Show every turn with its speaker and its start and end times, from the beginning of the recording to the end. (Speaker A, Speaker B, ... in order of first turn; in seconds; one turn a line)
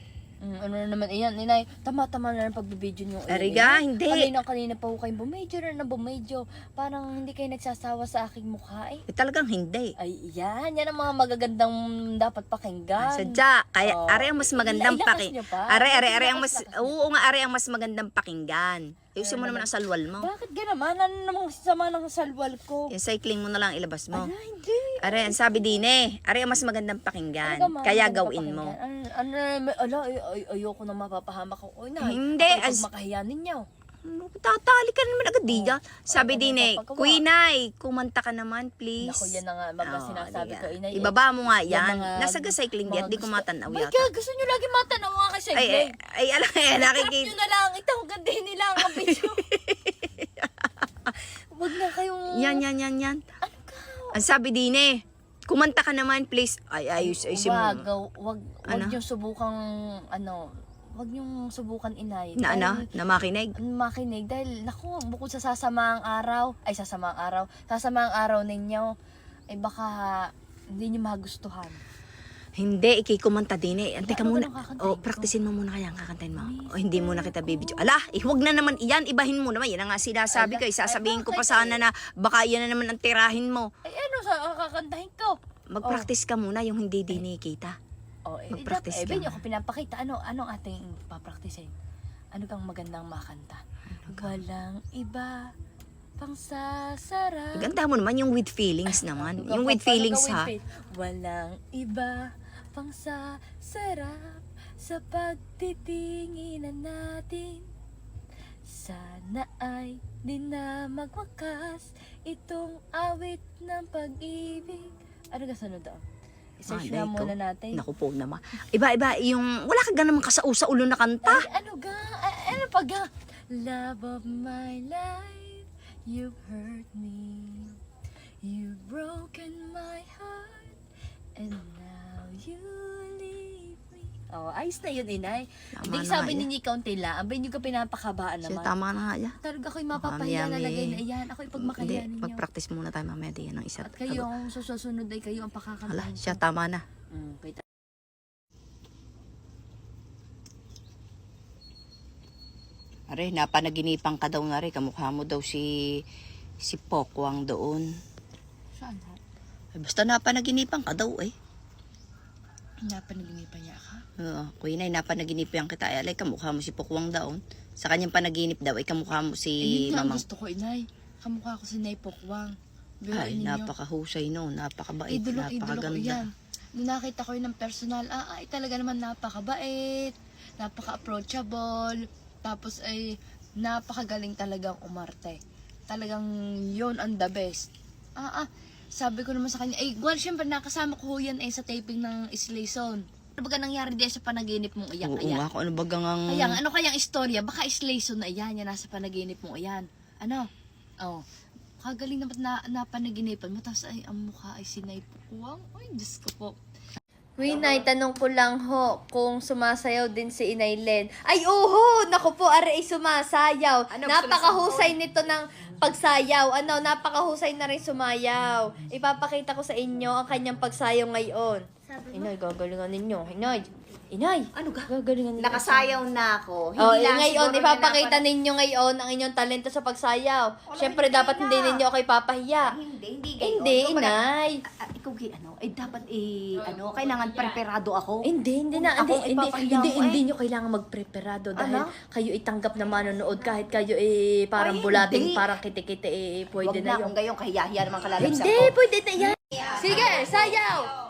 Speaker A: 0.4-9.0
Speaker B: 3.3-4.3
Speaker B: 9.1-9.9
Speaker A: 10.0-17.0
Speaker B: 13.0-20.3
Speaker A: 19.2-19.7
Speaker A: 20.2-22.9
Speaker B: 22.9-24.3
Speaker A: 24.1-25.7
Speaker B: 25.0-28.8
Speaker A: 27.4-33.6
Speaker B: 32.0-32.9
Speaker B: 34.0-44.1
Speaker A: 35.5-37.2
Speaker A: 39.0-41.1
Speaker A: 41.7-45.9
Speaker B: 45.5-47.3
Speaker A: 46.7-49.5
Speaker B: 48.8-51.1
Speaker A: 51.5-52.6
Speaker B: 52.3-53.2
Speaker A: 53.4-54.2
Speaker B: 54.1-57.9
Speaker A: 57.0-62.9
Speaker B: 58.7-59.0
Speaker B: 62.4-63.5
Speaker A: 63.6-68.9
Speaker A: 69.5-71.8
Speaker B: 72.6-83.7
Speaker A: 74.0-75.3
Speaker A: 76.3-78.0
Speaker A: 80.3-81.8
Speaker A: 83.8-86.1
Speaker B: 85.7-87.8
Speaker A: 88.3-91.7
Speaker B: 88.5-89.4
Speaker A: 92.3-95.5
Speaker B: 94.0-94.4
Speaker A: 96.2-97.7
Speaker B: 97.5-100.5
Speaker A: 98.9-107.7
Speaker A: 108.7-116.0
Speaker A: 116.6-117.8
Speaker B: 116.7-121.5
Speaker A: 121.2-127.8
Speaker A: 128.4-130.8
Speaker A: 131.4-138.7
Speaker B: 135.8-136.5
Speaker B: 138.5-139.4
Speaker A: 139.4-142.4
Speaker B: 140.0-141.0
Speaker B: 141.6-144.3
Speaker A: 143.8-146.4
Speaker B: 145.9-146.8
Speaker A: 147.1-147.6
Speaker B: 153.1-155.7
Speaker B: 156.6-157.9
Speaker A: 158.8-159.2
Speaker B: 159.7-161.3
Speaker A: 162.9-164.0
Speaker B: 164.2-170.2
Speaker A: 169.6-173.7
Speaker B: 173.1-176.3
Speaker A: 175.1-195.5
Speaker B: 195.0-196.6
Speaker A: 196.3-200.5
Speaker A: 201.8-206.6
Speaker A: 207.4-226.0
Speaker B: 207.4-207.9
Speaker B: 213.9-215.0
Speaker B: 224.5-228.2
Speaker A: 226.8-232.8
Speaker B: 230.7-231.8
Speaker B: 232.6-240.2
Speaker A: 233.4-234.6
Speaker A: 238.2-247.1
Speaker B: 241.6-241.9
Speaker B: 244.6-245.4
Speaker B: 246.6-248.7
Speaker A: 248.2-250.9
Speaker B: 249.5-250.3